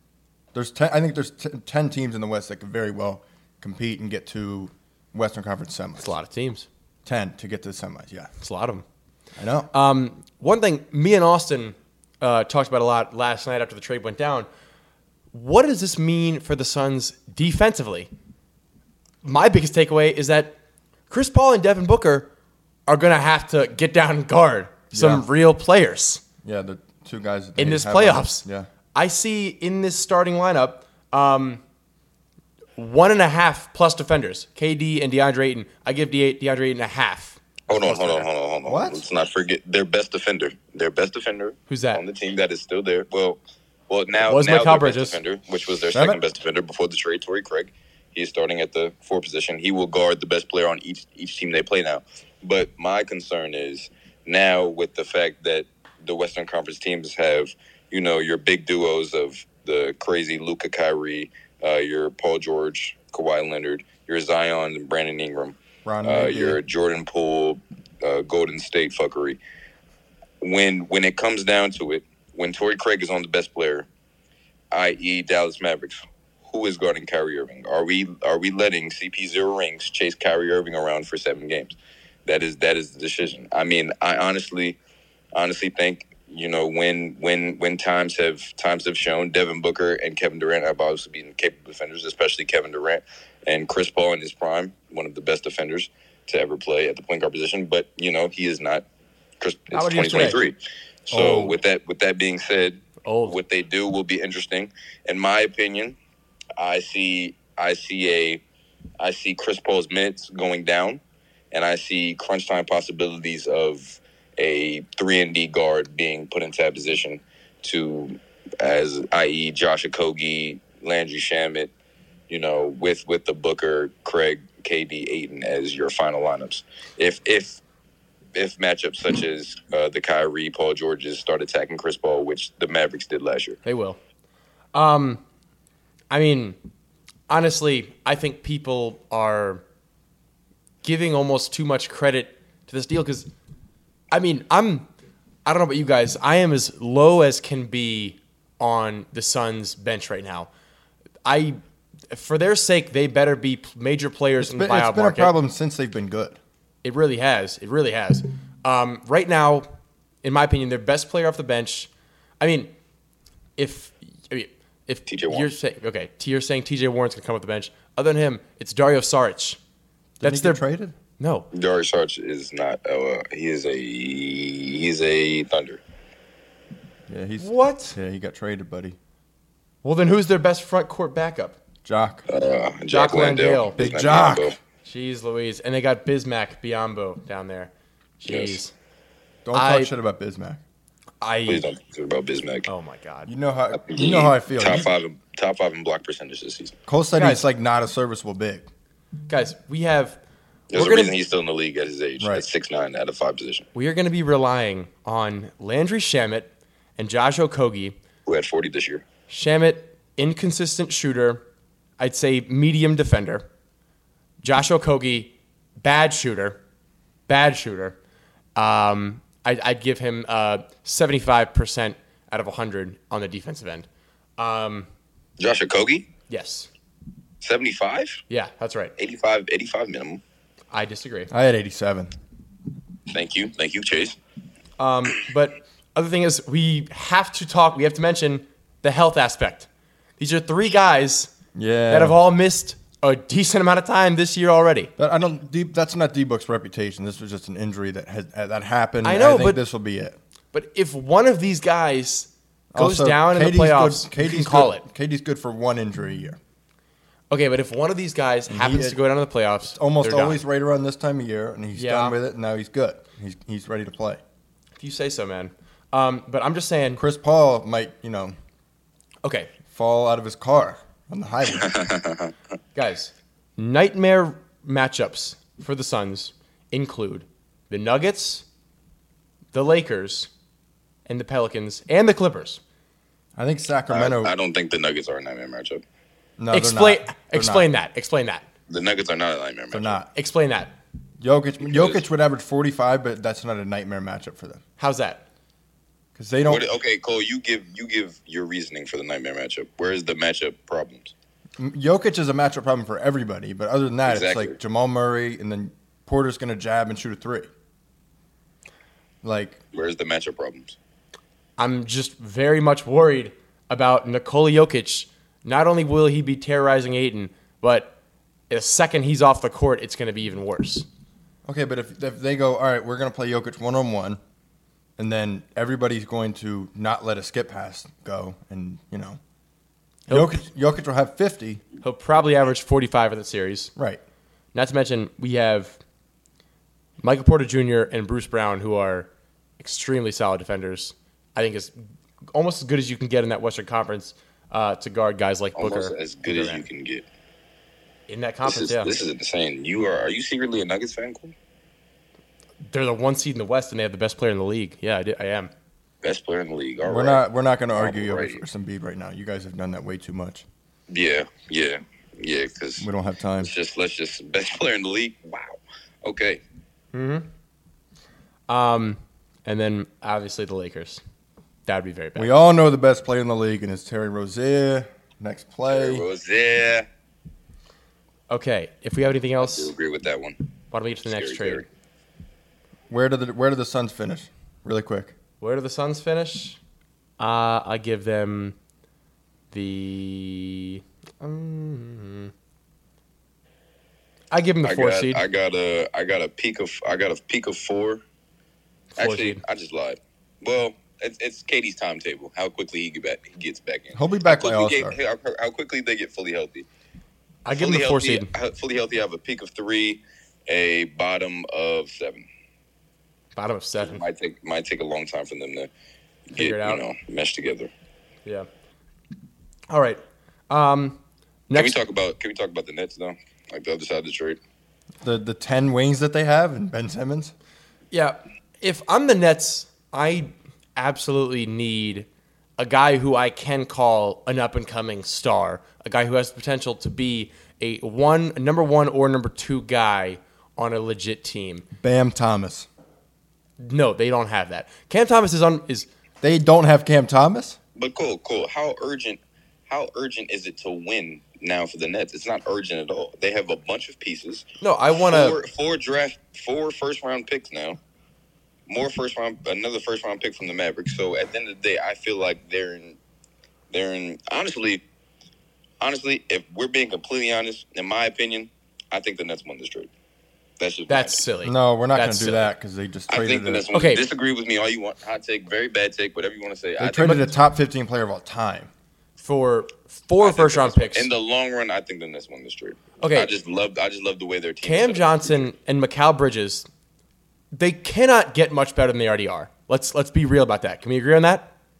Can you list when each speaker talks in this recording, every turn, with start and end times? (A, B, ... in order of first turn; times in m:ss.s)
0:00.5-0:06.1 A
0:06.0-0:06.7 B
0:07.0-0:08.3 A
0:08.4-0:08.8 B
0:09.4-0:09.7 A
0:09.7-0:14.5 B
0:15.3-0:18.1 B
0:19.2-0:20.6 B
0:21.1-0:22.3 B
0:22.9-0:26.2 B
0:24.9-0:25.2 A
0:26.4-0:28.7 A
0:27.6-0:31.6 B
0:32.8-0:38.3 B
0:37.7-1:09.4 C
0:38.6-0:39.0 A
0:41.7-0:42.0 B
0:44.2-0:45.2 B
0:45.9-0:46.2 A
1:05.8-1:06.6 A
1:10.4-1:13.9 C
1:14.7-1:24.8 C
1:25.3-1:38.8 C
1:39.4-1:40.6 C
1:39.7-1:40.4 B
1:41.1-1:46.0 C
1:41.1-1:41.6 A
1:43.0-1:43.4 B
1:46.6-1:48.4 C
1:49.0-1:51.0 C
1:51.5-2:01.7 C
2:02.3-2:07.6 C
2:08.3-2:13.6 C
2:13.6-2:14.0 B
2:14.7-2:15.2 B
2:16.1-2:16.6 B
2:17.3-2:19.6 B
2:20.8-2:23.3 B
2:24.1-2:24.8 B
2:25.4-2:30.5 B
2:31.2-2:31.6 B
2:32.1-2:35.3 B
2:34.4-2:36.4 A
2:36.8-2:39.6 B
2:40.2-2:42.7 B
2:43.6-2:49.6 B
2:45.1-2:45.5 C
2:50.2-2:50.9 A
2:50.2-2:50.6 B
2:51.2-2:51.5 B
2:51.5-2:55.8 C
2:57.1-2:59.0 A
2:57.4-2:58.0 B
2:59.8-3:01.6 B
3:01.8-3:02.2 A
3:02.3-3:04.6 C
3:02.9-3:03.8 B
3:03.8-3:04.5 A
3:04.8-3:08.7 B
3:08.3-3:08.6 C
3:09.4-3:10.6 A
3:09.5-3:09.9 B
3:11.2-3:11.7 B
3:11.5-3:12.7 C
3:12.7-3:13.3 B
3:13.2-3:14.9 A
3:13.7-3:16.7 C
3:16.9-3:18.7 A
3:17.2-3:17.4 B
3:19.3-3:20.2 B
3:20.7-3:23.6 C
3:20.7-3:21.1 B
3:22.2-3:22.4 A
3:23.7-3:27.9 B
3:28.2-3:29.0 C
3:29.3-3:31.4 B
3:32.0-3:33.4 B
3:34.4-3:36.6 B
3:37.3-3:38.0 B
3:38.6-3:43.9 B
3:44.4-3:44.9 B
3:45.4-3:46.1 C
3:46.3-3:46.7 B
3:47.4-3:48.2 C
3:48.3-3:48.9 B
3:49.0-3:50.2 C
3:50.7-3:51.3 B
3:51.3-3:52.1 A
3:53.1-3:54.2 C
3:54.8-3:59.7 B
4:00.2-4:01.3 B
4:01.5-4:02.2 A
4:01.9-4:04.9 B
4:05.0-4:10.2 A
4:09.0-4:09.6 B
4:10.5-4:14.8 B
4:12.7-4:16.4 A
4:17.3-4:20.4 B
4:18.5-4:19.0 A
4:19.7-4:24.2 A
4:21.7-4:22.2 B
4:24.8-4:27.0 B
4:27.0-4:28.3 A
4:29.2-4:29.5 B
4:29.7-4:31.9 A
4:31.6-4:32.3 C
4:32.7-4:38.4 B
4:39.5-4:40.3 B
4:41.0-4:42.6 B
4:43.4-4:44.3 A
4:43.9-4:45.8 C
4:46.4-4:47.7 A
4:46.5-4:48.4 B
4:48.7-4:50.0 C
4:49.7-4:50.1 A
4:50.1-4:50.8 B
4:51.2-4:54.6 A
4:51.6-4:52.0 C
4:54.8-4:55.2 B
4:56.2-4:56.6 A
4:56.4-5:01.1 C
5:01.6-5:07.5 A
5:04.0-5:04.6 C
5:09.2-5:09.6 A
5:09.7-5:10.8 C
5:11.6-5:17.9 B
5:18.5-5:20.8 B
5:21.4-5:24.2 A
5:25.0-5:29.2 A
5:30.1-5:30.4 B
5:30.1-5:31.6 A
5:31.8-5:33.7 B
5:33.8-5:34.0 A
5:34.5-5:35.8 B
5:37.0-5:41.7 B
5:42.3-5:46.6 B
5:45.6-5:47.0 C
5:48.1-5:48.9 B
5:48.4-5:51.3 C
5:52.6-5:55.5 B
5:56.0-5:58.4 C
5:56.8-6:00.4 A
6:00.9-6:02.9 C
6:02.8-6:03.5 A
6:03.4-6:06.4 C
6:06.9-6:07.3 B
6:08.5-6:11.0 B
6:11.6-6:12.3 B
6:12.2-6:16.0 A
6:15.7-6:16.8 C
6:18.3-6:19.7 B
6:19.4-6:20.4 C
6:20.7-6:21.6 B
6:21.0-6:21.6 C
6:22.9-6:25.1 A
6:25.4-6:26.6 B
6:27.2-6:28.5 B
6:29.5-6:32.3 B
6:34.3-6:35.2 B
6:34.6-6:38.0 C
6:39.0-6:39.4 B
6:39.0-6:46.6 C
6:43.9-6:45.0 A
6:47.4-6:48.3 B
6:47.5-6:52.2 C
6:53.4-6:54.0 B
6:53.8-6:55.7 C
6:56.3-6:57.7 C
6:56.3-6:56.8 B
6:59.7-7:01.8 B
7:01.5-7:04.4 C
7:05.0-7:07.3 A
7:07.9-7:12.1 B
7:12.6-7:21.6 B
7:21.8-7:22.7 A
7:23.6-7:25.9 B
7:26.2-7:27.6 A
7:27.8-7:37.8 C
7:34.6-7:35.4 B
7:38.7-7:43.0 C
7:43.7-7:44.8 C
7:45.8-7:49.9 C
7:50.6-7:51.2 C
7:50.9-7:52.5 B
7:51.4-7:53.6 A
7:53.1-7:57.2 C
7:53.7-7:54.0 B
7:56.8-7:58.7 A
7:59.2-8:01.1 B
8:00.2-8:05.5 C
8:03.0-8:03.3 B
8:04.6-8:06.7 B
8:07.5-8:11.5 B